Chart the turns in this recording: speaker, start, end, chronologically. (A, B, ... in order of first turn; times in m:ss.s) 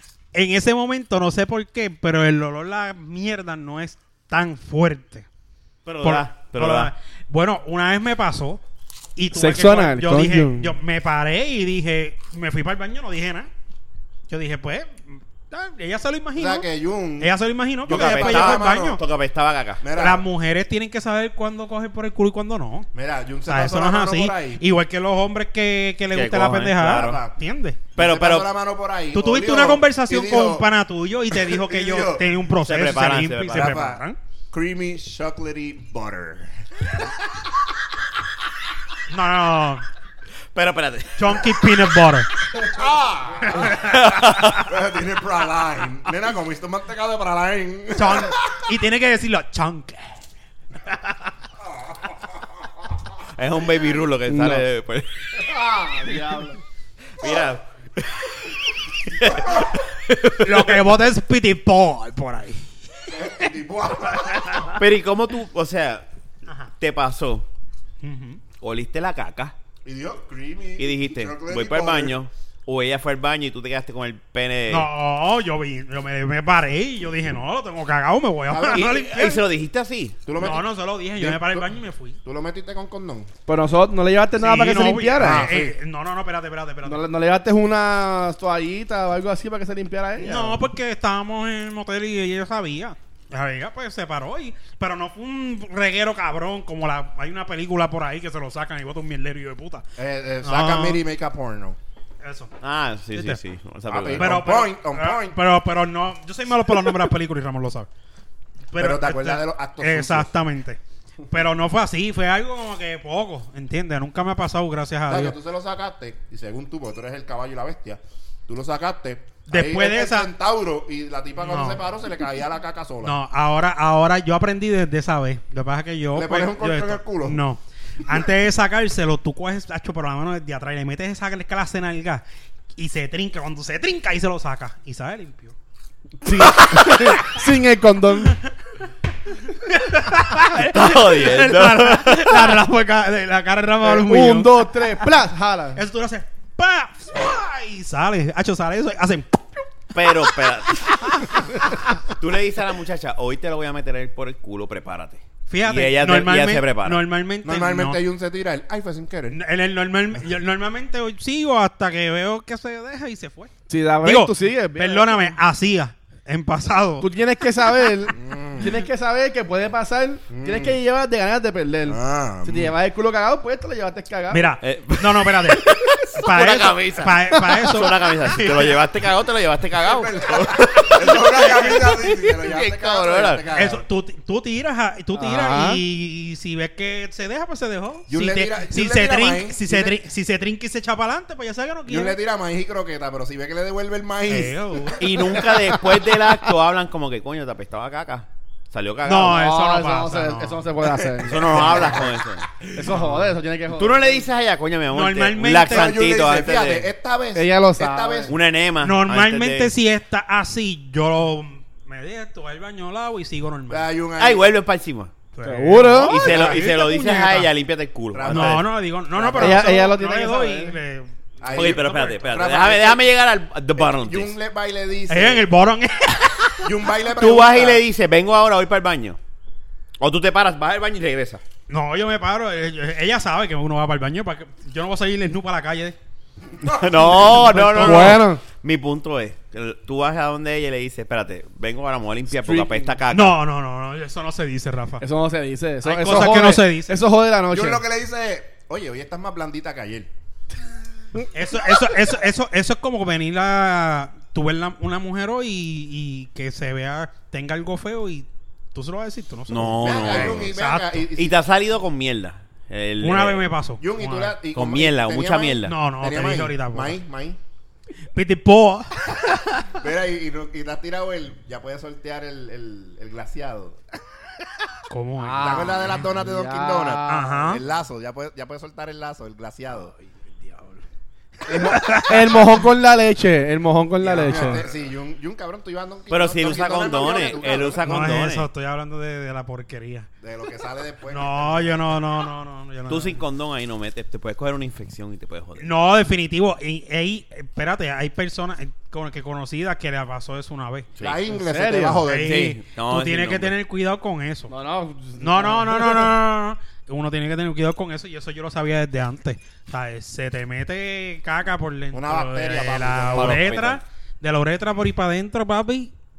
0:00.3-0:05.2 A
0:05.8-0:06.9 B
0:06.0-0:08.6 A
0:09.2-0:13.5 A
0:09.3-0:10.8 C
0:14.3-0:16.6 A
0:16.4-0:19.0 D
0:17.2-0:19.0 A
0:17.9-0:19.8 B
0:19.8-0:20.2 D
0:20.0-0:22.9 A
0:22.9-0:24.6 D
0:23.5-0:27.8 A
0:26.1-0:27.2 B
0:26.8-0:27.3 D
0:27.9-0:30.7 D
0:28.0-0:28.5 B
0:29.1-0:34.2 A
0:31.4-0:32.2 D
0:32.6-0:33.8 B
0:33.5-0:36.5 D
0:39.1-0:39.8 A
0:40.5-0:41.6 B
0:41.2-0:42.3 A
0:42.6-0:48.3 D
0:43.7-0:44.6 B
0:48.0-0:50.2 A
0:51.6-0:52.4 D
0:53.3-0:55.2 B
0:54.3-0:54.6 C
0:55.4-0:56.6 C
0:57.1-1:00.9 B
1:00.4-1:02.7 A
1:03.1-1:04.8 D
1:04.7-1:06.0 B
1:06.8-1:07.4 B
1:08.0-1:08.4 A
1:08.6-1:09.5 B
1:09.8-1:12.2 D
1:10.8-1:14.9 B
1:14.7-1:19.4 A
1:18.5-1:19.0 D
1:18.6-1:20.2 B
1:20.2-1:23.3 D
1:20.4-1:22.2 A
1:23.5-1:25.4 C
1:24.4-1:27.0 A
1:25.2-1:25.7 D
1:26.8-1:30.6 C
1:30.2-1:39.8 A
1:40.0-1:41.8 D
1:40.4-1:41.0 A
1:42.2-1:42.5 A
1:42.6-1:44.3 B
1:43.1-1:43.4 A
1:43.9-1:45.4 D
1:44.2-1:47.9 A
1:48.7-1:55.3 A
1:48.8-1:50.3 D
1:55.1-2:03.2 D
1:59.5-2:00.3 A
2:01.4-2:01.8 A
2:03.0-2:12.2 A
2:06.1-2:07.4 D
2:12.8-2:15.5 A
2:16.2-2:18.4 C
2:16.5-2:17.0 A
2:19.6-2:24.9 A
2:20.7-2:22.6 B
2:23.8-2:25.8 C
2:25.8-2:29.4 A
2:29.9-2:31.3 B
2:31.1-2:31.4 A
2:32.1-2:37.0 B
2:35.5-2:38.0 A
2:37.4-2:39.4 D
2:39.3-2:47.1 A
2:43.7-2:45.4 C
2:47.0-2:54.5 C
2:48.1-2:48.7 D
2:50.3-2:50.8 D
2:51.9-2:52.7 D
2:54.3-2:58.7 A
2:54.6-3:03.4 B
2:59.8-3:03.8 D
3:03.5-3:12.2 A
3:05.1-3:05.8 C
3:08.1-3:10.0 D
3:11.9-3:15.0 D
3:14.3-3:15.3 A
3:15.0-3:19.4 B
3:15.5-3:16.0 C
3:19.0-3:20.6 A
3:19.2-3:22.0 C
3:21.2-3:22.0 D
3:21.2-3:23.0 B
3:22.7-3:24.3 C
3:23.7-3:26.9 B
3:24.9-3:26.0 A
3:25.6-3:28.3 D
3:27.3-3:28.3 C
3:28.3-3:29.7 B
3:28.8-3:33.8 A
3:33.7-3:34.5 D
3:34.2-3:35.1 B
3:35.3-3:37.5 A
3:35.4-3:36.2 C
3:36.0-3:38.7 B
3:36.1-3:36.7 D
3:38.1-3:39.7 D
3:38.2-3:42.2 A
3:39.4-3:40.8 C
3:41.4-3:43.1 D
3:41.5-3:44.3 B
3:43.8-3:45.4 D
3:45.1-3:46.7 A
3:46.6-3:47.8 D
3:47.1-3:49.2 B
3:50.0-3:51.4 B
3:51.7-3:56.0 A
3:56.6-3:57.6 D
3:56.6-4:03.4 B
3:57.1-3:58.2 A
3:57.5-3:58.4 C
4:02.3-4:02.9 C
4:03.1-4:05.0 A
4:05.0-4:07.8 C
4:05.8-4:07.0 A
4:07.5-4:10.1 D
4:11.3-4:21.0 A
4:19.5-4:20.5 B
4:19.8-4:21.4 D
4:21.2-4:23.5 B
4:23.0-4:24.4 A
4:23.8-4:27.4 D
4:24.5-4:25.7 B
4:25.6-4:27.0 A
4:28.1-4:29.6 A
4:29.8-4:33.8 D
4:34.9-4:36.0 A
4:35.2-4:37.6 C
4:35.4-4:39.9 D
4:37.1-4:37.6 A
4:41.4-4:42.0 D
4:41.5-4:42.5 A
4:42.1-4:44.6 C
4:44.0-4:48.0 D
4:46.1-4:48.5 B
4:47.6-4:50.1 A
4:50.2-4:51.9 D
4:51.1-4:53.2 A
4:52.9-4:55.7 B
4:55.6-5:00.9 A
5:00.9-5:01.2 B
5:01.0-5:02.5 D
5:01.3-5:02.0 C
5:02.0-5:04.5 A
5:02.1-5:03.5 B
5:04.5-5:06.2 C
5:05.2-5:15.9 A
5:11.9-5:13.4 D
5:13.1-5:13.8 B